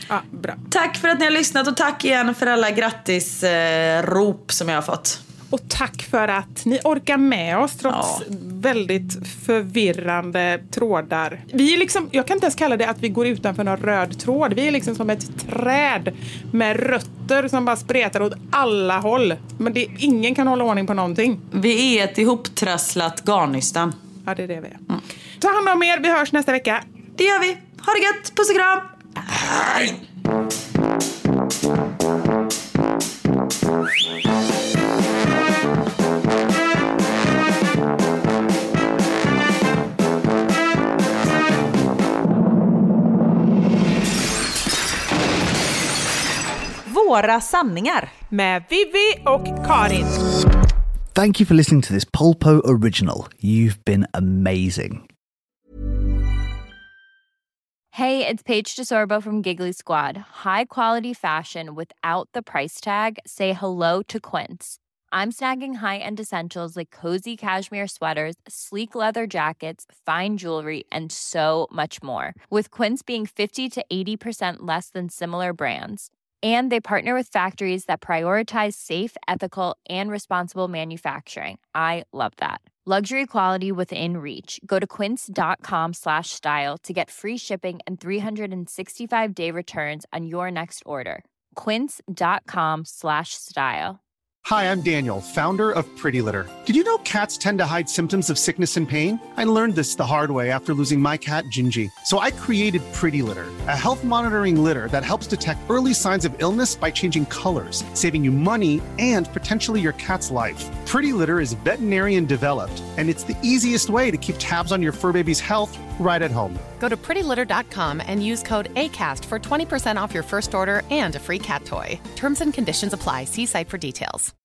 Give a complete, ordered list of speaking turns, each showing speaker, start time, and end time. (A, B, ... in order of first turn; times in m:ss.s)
0:00.1-0:00.6 A
0:00.7-0:05.2 B
0:05.5-0:21.4 A
0:07.9-0:08.2 B
0:21.5-0:24.0 B
0:24.3-0:24.8 A
0:25.4-0:26.8 A
0:27.2-0:30.0 B
0:46.9-0:48.1 B
0:48.3-0:50.2 A
0:51.1-0:55.0 C
0:57.9-1:34.0 D
1:34.4-1:56.6 E
1:56.8-2:04.3 F